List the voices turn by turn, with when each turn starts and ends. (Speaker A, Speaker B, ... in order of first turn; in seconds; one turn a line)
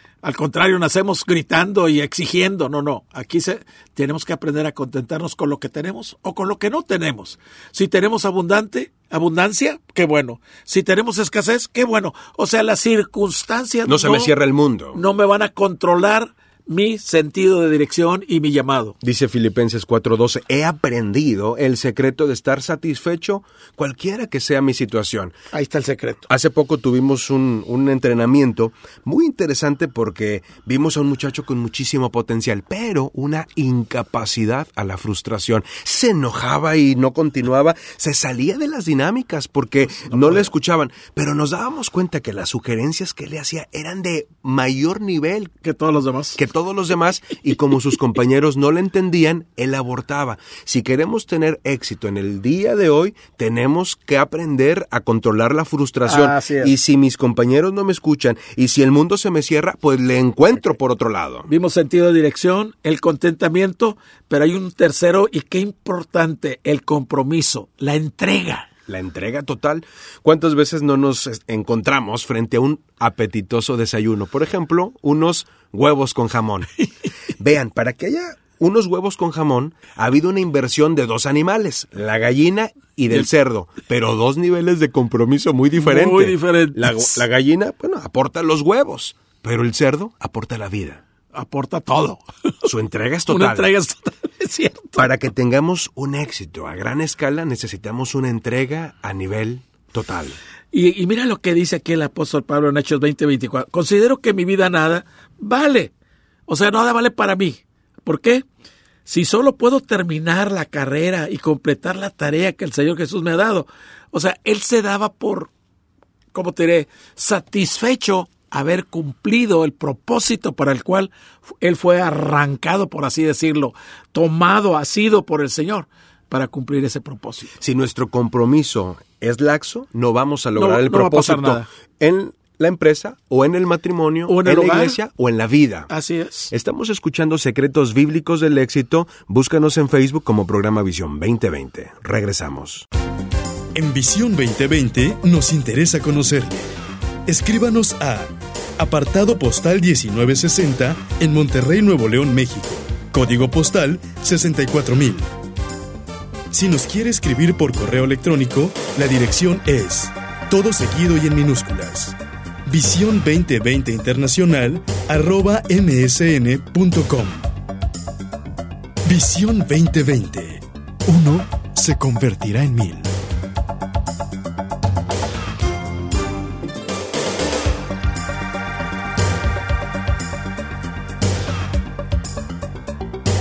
Speaker A: 0.2-14.3
Speaker B: 13.9-15.0
Speaker A: 14.9-19.0
Speaker B: 19.0-25.4
Speaker A: 25.5-26.3
Speaker B: 26.3-45.5
Speaker A: 39.9-40.5
Speaker A: 45.6-46.4
Speaker B: 46.4-61.5
Speaker A: 56.1-56.7
Speaker A: 61.5-68.7
Speaker B: 68.9-76.7
Speaker B: 77.4-91.0
Speaker A: 85.8-87.2
Speaker A: 91.3-92.5
Speaker B: 92.6-93.7
Speaker A: 93.3-95.0
Speaker B: 95.0-100.4
Speaker A: 100.7-105.9
Speaker A: 106.5-108.5
Speaker A: 109.1-115.5
Speaker A: 116.3-127.5
Speaker B: 127.6-135.9
Speaker A: 130.6-131.7
Speaker A: 134.3-135.0
Speaker A: 135.9-136.5
Speaker B: 136.5-142.9
Speaker C: 143.8-146.7
Speaker C: 147.3-155.3
Speaker C: 156.5-167.5
Speaker C: 169.1-173.1